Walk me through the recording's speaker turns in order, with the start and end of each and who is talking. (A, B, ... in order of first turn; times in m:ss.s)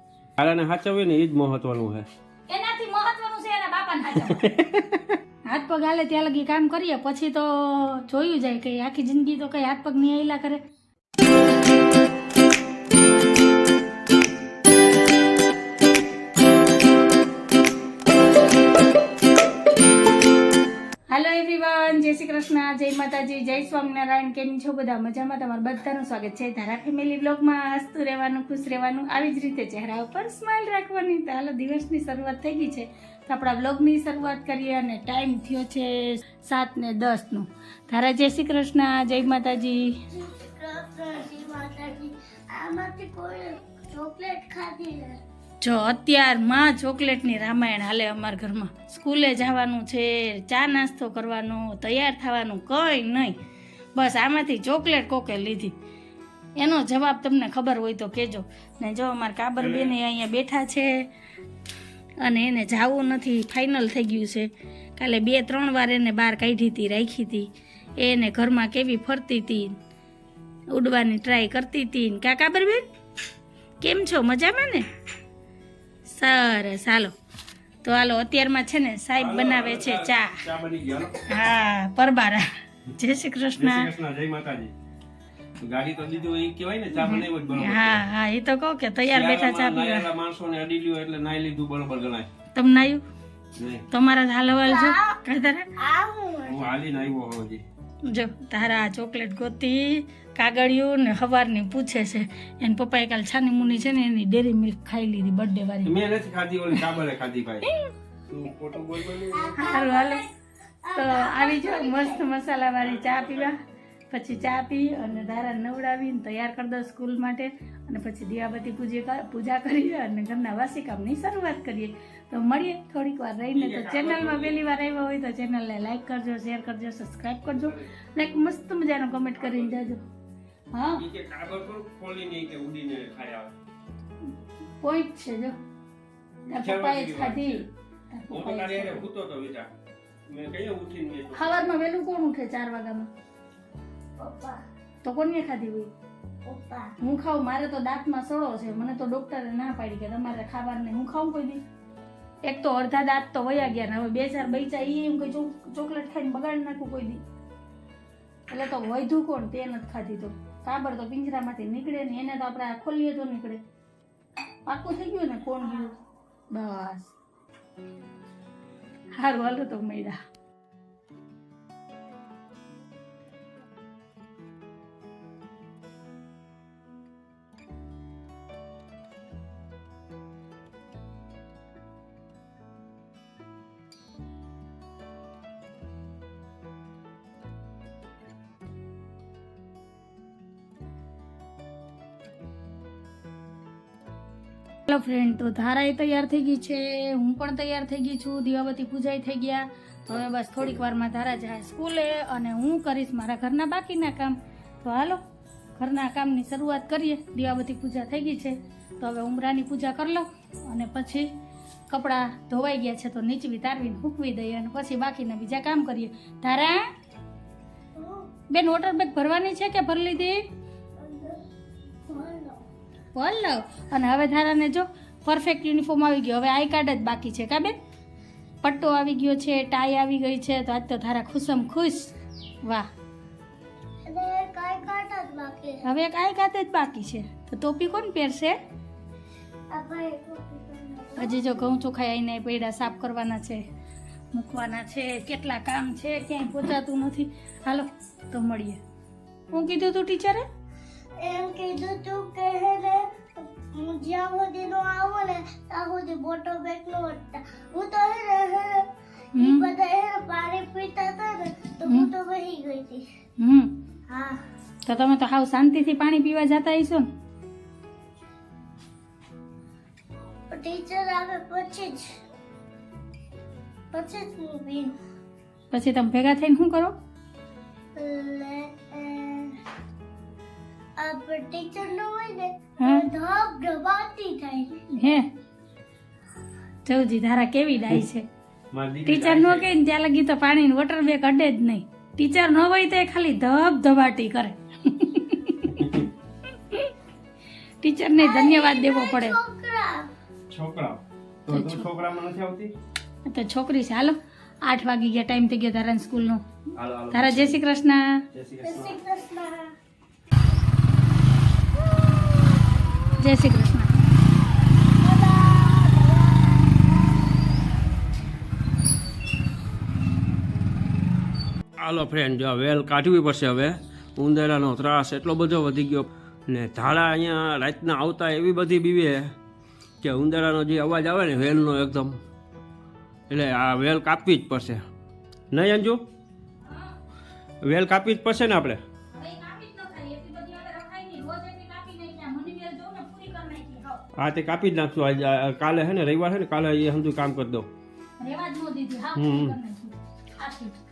0:00.4-0:02.1 A
0:02.5-0:04.5 B
0:04.3-0:05.2 A
0:05.5-0:10.6 B
0:21.1-0:40.0 B
0:40.1-0:45.2 C
0:45.6-0:53.4 B
0:54.0-0:55.8 B
0:56.6-1:01.1 B
0:59.6-1:00.0 A
1:02.2-1:09.8 B
1:10.7-1:12.8 B
1:13.8-1:14.9 B
1:16.1-1:17.1 B
1:17.8-1:20.4 B
1:19.2-1:21.3 A
1:21.3-1:23.9 B
1:23.6-1:24.7 A
1:25.6-1:28.0 A
1:27.0-1:30.1 B
1:29.1-1:32.3 A
1:32.5-1:33.0 B
1:33.6-1:33.8 A
1:33.9-1:35.7 B
1:34.6-1:35.2 C
1:35.8-1:36.6 C
1:36.5-1:37.6 A
1:38.0-1:45.9 B
1:45.8-1:47.7 A
1:48.3-1:49.5 A
1:49.2-1:50.3 C
1:49.6-1:50.2 B
1:50.8-1:52.3 C
1:51.0-1:53.6 B
1:52.8-1:53.5 A
1:54.1-2:10.0 B
2:03.5-2:04.6 A
2:07.5-2:07.9 A
2:09.4-2:09.8 A
2:10.7-2:11.0 B
2:11.0-2:13.5 A
2:14.8-2:15.6 B
2:16.5-2:19.0 B
2:16.5-2:17.7 A
2:18.3-2:19.7 A
2:20.3-2:21.8 A
2:21.3-2:23.1 B
2:24.2-2:24.6 C
2:25.0-2:25.9 B
2:26.4-2:26.9 C
2:27.0-2:31.6 B
2:32.4-2:37.2 B
2:38.5-2:43.6 B
2:44.7-2:46.0 B
2:46.5-2:47.1 B
2:49.2-2:50.2 B
3:14.9-3:25.2 B
3:25.8-3:31.3 B
3:31.9-3:36.8 B
3:38.0-3:38.3 C
3:38.5-3:40.5 B
3:41.0-3:41.4 C
3:42.0-3:42.6 C
3:43.1-3:47.8 B
3:48.6-3:52.9 B
3:54.1-3:55.8 C
3:55.8-3:58.6 B
3:59.7-4:01.5 C
4:01.2-4:03.6 B
4:04.3-4:08.8 B
4:09.5-4:10.4 B
4:11.2-4:23.1 C
4:19.4-4:19.7 B
4:23.4-4:23.8 B
4:24.1-4:24.4 C
4:24.9-4:27.1 B
4:30.5-4:32.2 C
4:33.9-4:35.0 C
4:35.7-4:37.0 B
4:38.0-4:39.6 C
4:41.0-4:44.8 C
4:42.8-4:43.1 B
4:44.9-4:45.3 B
4:46.8-4:48.2 B
4:48.7-4:49.7 A
4:49.1-4:55.9 B
4:55.7-4:56.1 A
4:56.6-4:56.9 B
4:57.8-4:59.4 B
4:58.2-5:00.1 C
5:00.5-5:02.7 A
5:01.5-5:01.9 B
5:03.2-5:06.4 B
5:06.8-5:07.6 A
5:07.1-5:08.2 B
5:08.3-5:09.0 A
5:08.6-5:09.7 C
5:13.2-5:14.0 B
5:15.0-5:16.9 C
5:21.8-5:29.3 A
5:30.0-5:32.2 A
5:33.3-5:34.8 A
5:35.5-5:36.0 A
5:36.7-5:37.0 B
5:37.6-5:38.8 A
5:39.1-5:44.0 B
5:44.2-5:47.7 A
5:48.2-5:50.8 B
5:49.2-5:49.6 A